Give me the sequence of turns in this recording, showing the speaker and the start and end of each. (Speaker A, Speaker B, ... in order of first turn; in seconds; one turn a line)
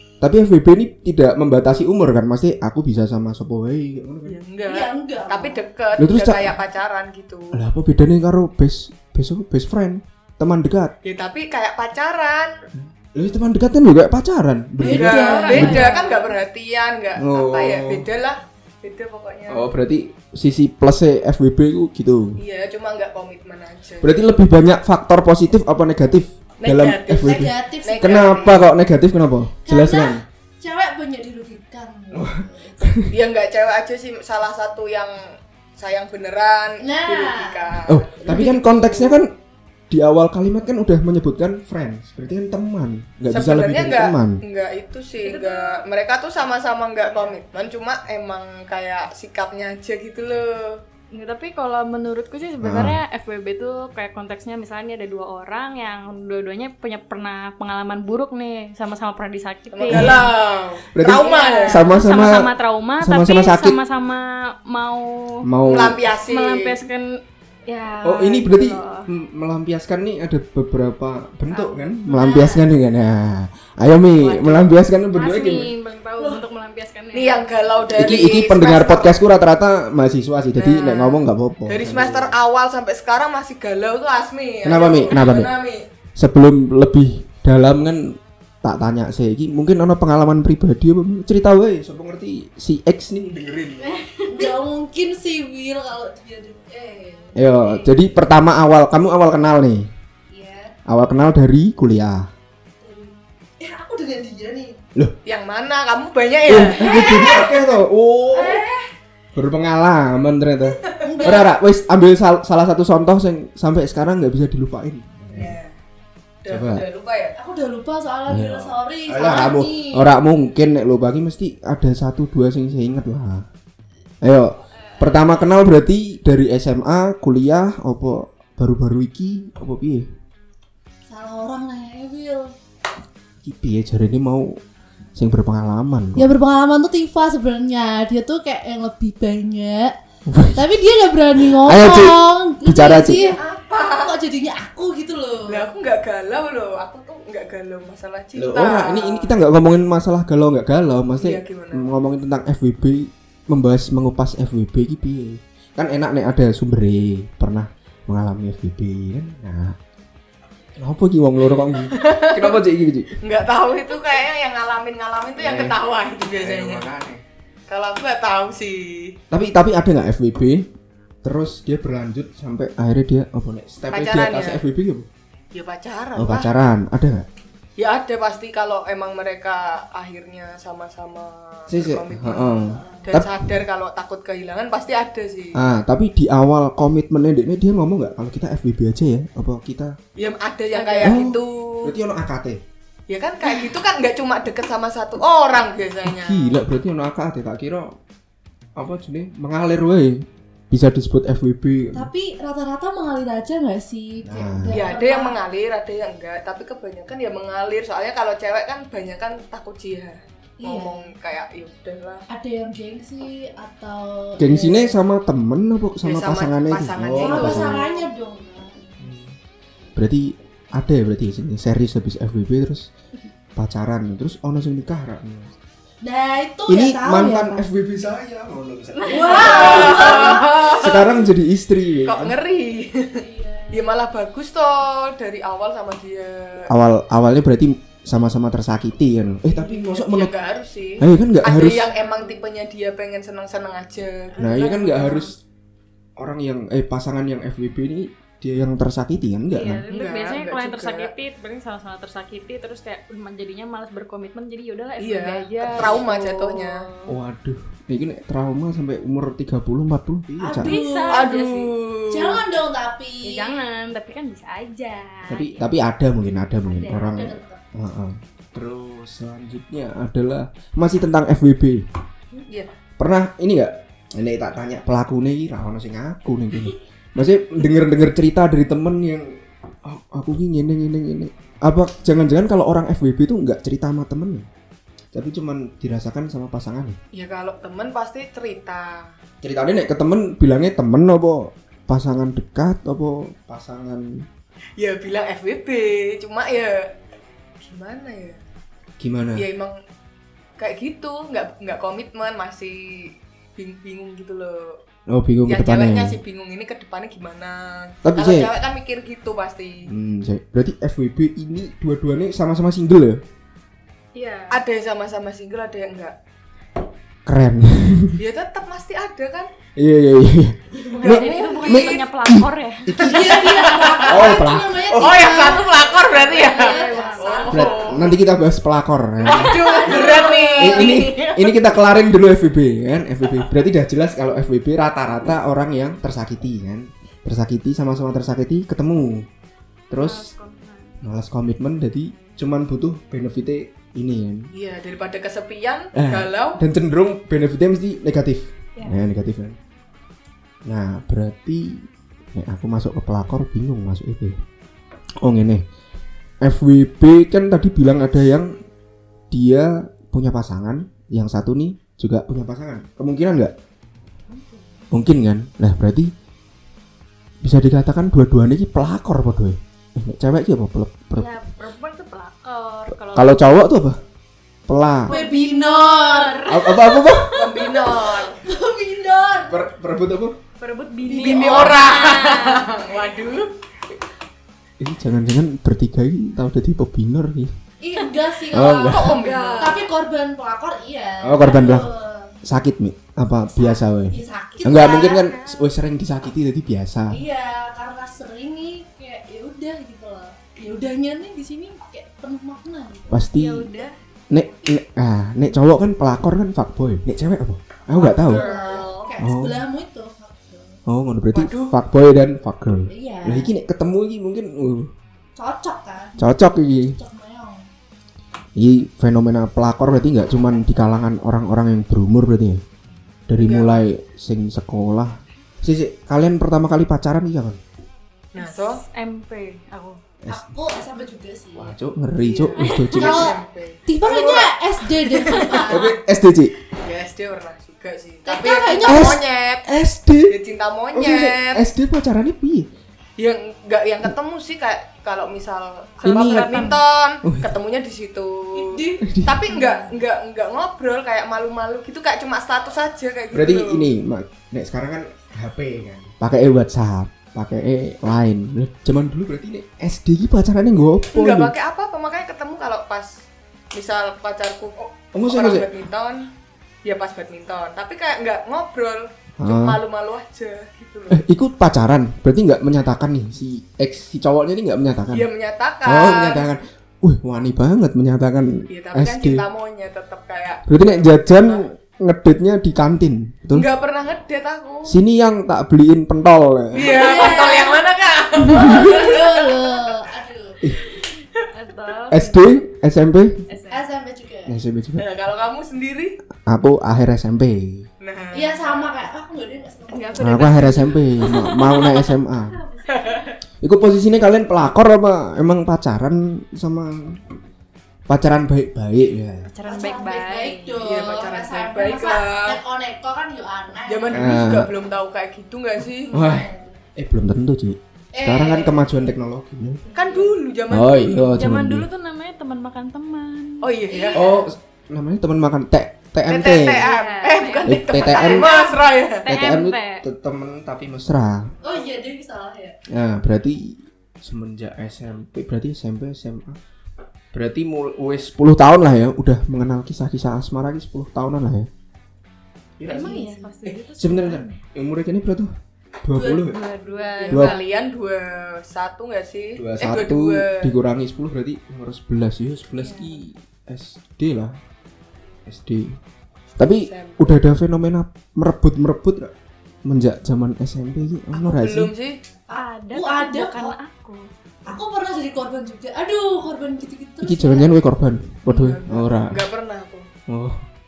Speaker A: 0.2-4.4
Speaker B: 4.2-7.6
Speaker C: 4.7-5.6
Speaker A: 6.0-6.5
Speaker A: 7.5-10.9
Speaker B: 11.0-12.5
Speaker A: 12.8-15.9
Speaker C: 14.8-16.3
Speaker B: 14.9-19.7
Speaker D: 15.3-15.9
Speaker A: 17.2-18.1
Speaker A: 19.5-22.4
Speaker B: 22.4-24.1
Speaker A: 24.0-30.2
Speaker B: 26.6-28.6
Speaker C: 27.2-28.3
Speaker C: 29.6-32.9
Speaker A: 32.1-33.1
Speaker B: 33.1-35.2
Speaker B: 35.8-39.2
Speaker C: 36.8-38.6
Speaker A: 37.9-39.3
Speaker A: 39.9-44.4
Speaker B: 43.3-50.8
Speaker D: 45.2-45.8
Speaker D: 51.1-60.3
Speaker A: 52.6-53.0
Speaker B: 59.7-61.8
Speaker A: 59.9-60.3
Speaker A: 60.9-62.5
Speaker D: 61.1-65.5
Speaker A: 63.0-63.8
Speaker A: 65.4-66.0
Speaker B: 65.7-66.8
Speaker D: 66.2-69.1
Speaker A: 68.0-75.7
Speaker C: 71.5-72.6
Speaker D: 74.3-74.6
Speaker D: 75.1-77.5
Speaker B: 77.1-79.2
Speaker A: 77.9-82.3
Speaker B: 80.6-85.8
Speaker A: 84.6-85.5
Speaker A: 86.2-93.9
Speaker D: 93.8-94.5
Speaker C: 94.3-97.9
Speaker A: 97.3-99.9
Speaker C: 100.3-100.7
Speaker A: 100.8-102.3
Speaker C: 102.8-104.8
Speaker B: 105.2-107.6
Speaker A: 106.5-108.6
Speaker C: 106.7-107.7
Speaker C: 108.3-108.9
Speaker A: 109.3-115.6
Speaker B: 110.8-111.5
Speaker C: 111.0-111.4
Speaker B: 115.3-115.7
Speaker B: 116.4-117.4
Speaker A: 116.5-116.8
Speaker C: 117.4-120.1
Speaker A: 118.3-123.5
Speaker B: 119.2-119.5
Speaker A: 124.2-130.1
Speaker D: 124.8-125.4
Speaker C: 131.1-132.5
Speaker A: 133.4-134.6
Speaker A: 135.2-136.3
Speaker C: 136.2-139.9
Speaker A: 140.2-140.8
Speaker C: 140.5-145.7
Speaker A: 141.4-143.3
Speaker B: 143.2-144.1
Speaker B: 145.5-149.3
Speaker A: 148.3-159.8
Speaker B: 151.2-151.8
Speaker A: 160.8-163.1
Speaker B: 161.8-162.6
Speaker B: 163.2-166.9
Speaker A: 165.4-165.7
Speaker A: 166.4-167.2
Speaker B: 167.7-169.2
Speaker A: 169.3-170.7
Speaker A: 171.2-175.1
Speaker B: 173.9-174.6
Speaker B: 175.5-176.5
Speaker A: 176.2-177.3
Speaker B: 177.8-182.5
Speaker A: 181.7-183.4
Speaker C: 182.7-183.1
Speaker B: 183.1-185.6
Speaker A: 185.5-189.9
Speaker B: 190.2-191.9
Speaker D: 190.7-191.2
Speaker A: 191.0-192.6
Speaker B: 193.1-196.6
Speaker A: 196.0-197.9
Speaker A: 198.8-202.1
Speaker C: 201.9-205.3
Speaker A: 204.2-204.8
Speaker B: 204.7-212.2
Speaker C: 210.6-211.1
Speaker C: 212.3-215.0
Speaker A: 214.4-217.8
Speaker B: 216.0-217.9
Speaker C: 217.2-219.0
Speaker A: 219.0-219.4
Speaker A: 219.9-222.9
Speaker A: 223.6-225.5
Speaker C: 226.0-227.6
Speaker A: 226.7-232.4
Speaker D: 228.9-230.3
Speaker C: 229.1-230.7
Speaker B: 229.2-231.2
Speaker B: 232.0-236.7
Speaker C: 233.2-233.9
Speaker A: 236.7-240.3
Speaker B: 239.5-244.4
Speaker A: 241.0-241.9
Speaker D: 244.3-245.3
Speaker A: 244.4-245.3
Speaker A: 246.2-249.8
Speaker D: 249.5-257.1
Speaker B: 249.9-251.1
Speaker B: 255.0-256.9
Speaker A: 255.7-256.0
Speaker A: 257.1-260.7
Speaker C: 260.4-261.3
Speaker D: 260.6-261.7
Speaker B: 261.1-262.4
Speaker C: 262.1-263.5
Speaker D: 263.2-265.6
Speaker A: 265.3-271.8
Speaker C: 266.7-267.6
Speaker B: 272.5-272.7
Speaker A: 273.0-284.5
Speaker A: 285.1-287.0
Speaker B: 287.1-289.1
Speaker A: 289.4-294.2
Speaker B: 294.8-296.9
Speaker B: 297.6-298.4
Speaker A: 299.0-299.4
Speaker B: 299.3-299.8
Speaker B: 300.6-304.8
Speaker A: 305.1-306.2
Speaker B: 305.5-309.9
Speaker A: 308.0-308.5
Speaker A: 309.9-313.2
Speaker D: 314.1-314.6
Speaker B: 314.5-316.1
Speaker A: 317.2-318.2
Speaker B: 318.1-319.5
Speaker A: 319.8-323.4
Speaker B: 320.9-322.0
Speaker D: 321.0-323.0
Speaker B: 323.0-324.4
Speaker C: 323.0-327.6
Speaker A: 324.0-325.4
Speaker B: 324.9-328.1
Speaker D: 325.4-328.0
Speaker A: 327.5-329.6
Speaker B: 329.2-331.5
Speaker C: 329.2-331.0
Speaker A: 330.6-339.3
Speaker A: 339.9-340.3
Speaker D: 340.0-340.9
Speaker A: 341.0-344.5
Speaker B: 344.5-346.6
Speaker A: 345.9-349.6
Speaker A: 350.6-354.4
Speaker A: 355.2-355.6
Speaker A: 356.4-358.5
Speaker A: 359.3-363.5
Speaker D: 364.3-364.9
Speaker A: 364.9-366.1
Speaker A: 367.4-371.3
Speaker D: 371.1-373.4
Speaker A: 373.1-374.0
Speaker A: 374.7-375.1
Speaker D: 375.0-377.9
Speaker C: 375.1-376.9
Speaker A: 376.5-377.4
Speaker B: 377.3-378.4
Speaker C: 378.3-379.6
Speaker A: 379.5-380.4
Speaker D: 380.6-382.7
Speaker C: 381.1-381.5
Speaker B: 381.1-383.5
Speaker A: 384.8-387.5
Speaker C: 387.8-392.4
Speaker A: 388.5-389.2
Speaker B: 388.8-389.8
Speaker D: 389.1-389.9
Speaker A: 391.2-391.9
Speaker A: 392.4-397.2
Speaker C: 393.5-395.3
Speaker D: 394.6-395.7
Speaker C: 397.1-403.3
Speaker A: 403.1-403.7
Speaker D: 403.3-404.0
Speaker A: 404.3-408.5
Speaker B: 407.9-409.1
Speaker C: 408.2-410.8
Speaker A: 409.2-409.6
Speaker A: 410.9-414.9
Speaker B: 411.3-411.8
Speaker C: 412.9-413.5
Speaker C: 415.4-417.7
Speaker A: 416.2-417.0
Speaker A: 418.6-422.6
Speaker A: 423.3-427.6
Speaker B: 423.4-423.8
Speaker B: 428.3-428.8
Speaker D: 428.4-430.0
Speaker C: 430.3-431.7
Speaker A: 431.6-433.4
Speaker B: 432.2-435.9
Speaker D: 432.6-432.9
Speaker C: 432.9-435.8
Speaker A: 435.7-436.5
Speaker B: 436.7-439.6
Speaker C: 438.2-439.2
Speaker A: 438.9-440.4
Speaker B: 440.3-441.6
Speaker A: 440.9-442.7
Speaker B: 443.2-453.9
Speaker D: 446.0-446.8
Speaker A: 446.0-447.5
Speaker C: 448.5-449.8
Speaker A: 449.0-449.5
Speaker D: 449.5-449.8
Speaker A: 453.3-461.5
Speaker B: 461.1-466.3
Speaker A: 465.1-465.7
Speaker B: 466.8-471.2
Speaker A: 469.4-469.8
Speaker A: 471.1-475.3
Speaker B: 475.1-476.4
Speaker A: 475.8-479.4
Speaker B: 478.7-481.7
Speaker A: 480.7-483.7
Speaker B: 483.5-484.9
Speaker A: 484.9-487.1
Speaker B: 486.7-489.9
Speaker C: 486.8-487.8
Speaker A: 488.4-489.0
Speaker C: 488.5-490.6
Speaker D: 491.5-492.4
Speaker A: 492.1-493.4
Speaker D: 493.5-493.8
Speaker C: 493.7-494.5
Speaker A: 494.5-495.1
Speaker B: 495.0-496.2
Speaker A: 496.4-497.9
Speaker B: 498.0-498.9
Speaker C: 498.3-500.8
Speaker D: 499.9-503.3
Speaker A: 500.2-502.6
Speaker B: 502.9-503.3
Speaker A: 503.6-507.2
Speaker A: 508.1-509.5
Speaker D: 509.5-510.8
Speaker C: 509.6-514.3
Speaker B: 510.8-512.6
Speaker B: 513.9-516.2
Speaker A: 514.1-514.7
Speaker A: 516.1-519.8
Speaker C: 516.1-516.6
Speaker C: 518.1-519.1
Speaker C: 519.9-520.2
Speaker D: 519.9-520.2
Speaker B: 519.9-521.4
Speaker A: 520.7-521.9
Speaker D: 521.4-523.7
Speaker B: 523.6-524.3
Speaker C: 523.9-524.4
Speaker A: 524.1-526.8
Speaker B: 526.3-529.2
Speaker D: 526.7-530.0
Speaker A: 527.6-528.5
Speaker A: 529.2-531.5
Speaker C: 531.6-532.8
Speaker A: 532.9-536.6
Speaker A: 537.3-541.7
Speaker A: 542.8-545.5
Speaker D: 542.9-544.6
Speaker C: 542.9-543.5
Speaker A: 546.0-546.6
Speaker C: 546.1-547.0
Speaker D: 546.3-547.6
Speaker B: 547.2-550.7
Speaker A: 547.3-547.6
Speaker A: 549.6-554.6
Speaker D: 552.8-553.2
Speaker A: 555.5-556.0
Speaker A: 556.6-559.3
Speaker B: 556.6-557.4
Speaker A: 559.8-561.9
Speaker B: 561.3-562.2
Speaker C: 562.5-563.7
Speaker D: 562.5-564.3
Speaker C: 564.6-567.7
Speaker A: 567.2-569.4
Speaker B: 568.5-570.1
Speaker A: 570.3-570.6